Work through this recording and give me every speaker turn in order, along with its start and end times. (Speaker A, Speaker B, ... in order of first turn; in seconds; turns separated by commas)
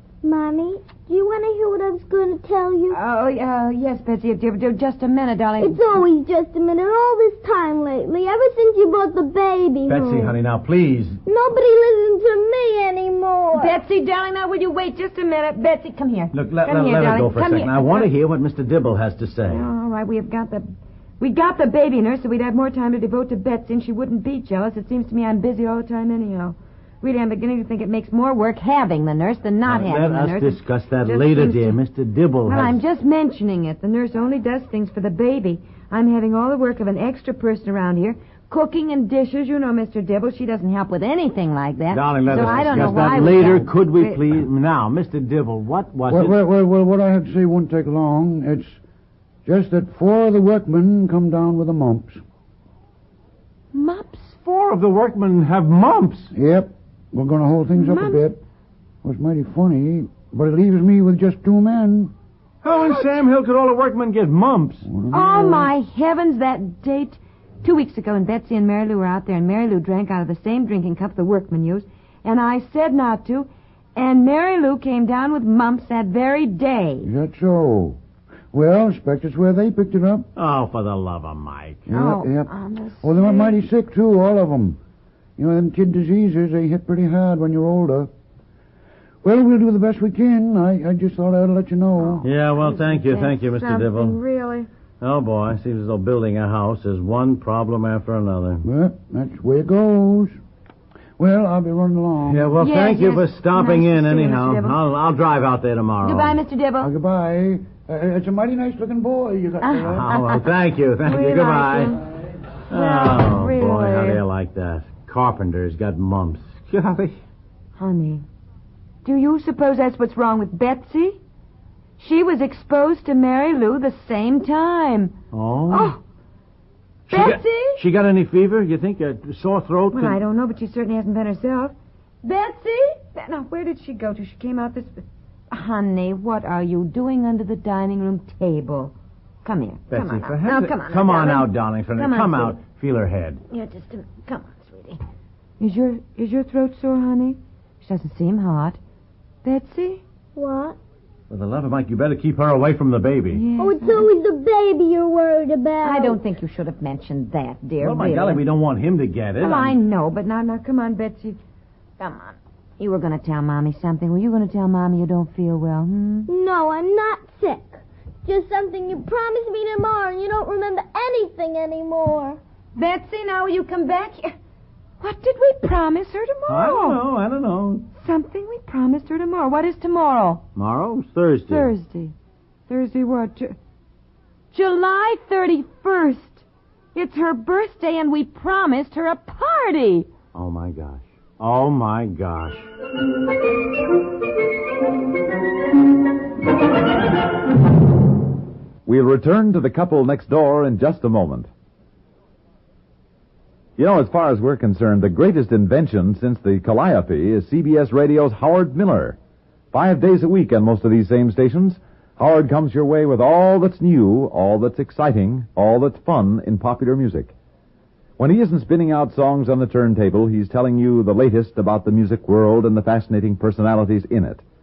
Speaker A: 0.2-3.0, Speaker B: 2.9-5.9, Speaker A: 5.6-10.3, Speaker C: 9.9-11.2, Speaker A: 11.3-13.8, Speaker B: 13.6-18.1, Speaker C: 16.3-19.7, Speaker B: 19.5-20.7, Speaker B: 21.2-31.8, Speaker C: 29.6-32.8, Speaker B: 32.5-44.3, Speaker C: 41.9-46.4, Speaker D: 42.5-42.8, Speaker D: 46.1-48.8, Speaker D: 49.5-52.2, Speaker B: 53.7-54.4, Speaker C: 54.5-56.3, Speaker D: 56.3-58.4, Speaker B: 57.7-58.2, Speaker D: 59.0-62.1, Speaker C: 62.6-64.9, Speaker B: 62.7-63.0, Speaker D: 64.8-65.7, Speaker B: 65.1-77.1, Speaker D: 77.0-78.0, Speaker D: 78.5-80.3, Speaker C: 80.4-81.9, Speaker D: 81.9-84.8, Speaker B: 81.9-83.6, Speaker D: 85.4-88.1, Speaker D: 89.2-92.3, Speaker B: 92.0-94.7, Speaker C: 92.2-94.2, Speaker C: 95.0-98.7, Speaker D: 98.6-100.4, Speaker D: 101.2-102.5, Speaker C: 102.2-106.4, Speaker B: 102.6-104.8, Speaker B: 106.0-106.9, Speaker D: 106.8-110.1, Speaker B: 109.6-110.5, Speaker C: 109.9-112.0, Speaker B: 111.0-112.0, Speaker B: 112.7-114.2, Speaker C: 112.7-117.2, Speaker B: 117.8-118.2, Speaker B: 119.0-121.2, Speaker B: 122.0-125.2, Speaker C: 125.3-126.0, Speaker B: 125.7-126.0, Speaker C: 127.1-130.2, Speaker B: 127.1-127.8, Speaker B: 129.9-142.6, Speaker C: 139.9-143.4, Speaker B: 143.5-145.0, Speaker B: 145.6-148.8, Speaker B: 149.4-150.0, Speaker A: 150.4-150.8, Speaker C: 151.3-153.4, Speaker B: 153.3-154.1, Speaker A: 153.6-156.2, Speaker B: 155.8-158.4, Speaker C: 157.8-159.8, Speaker B: 159.4-161.4, Speaker B: 162.0-166.3, Speaker A: 166.3-172.4, Speaker B: 172.8-174.3, Speaker B: 175.0-177.0, Speaker C: 176.5-177.9, Speaker B: 178.0-180.4, Speaker C: 180.6-181.7, Speaker B: 181.5-182.1, Speaker B: 182.7-183.6, Speaker B: 184.5-190.1, Speaker C: 190.3-192.7, Speaker E: 198.9-201.5, Speaker E: 203.8-209.2, Speaker E: 209.7-217.3, Speaker E: 218.2-224.4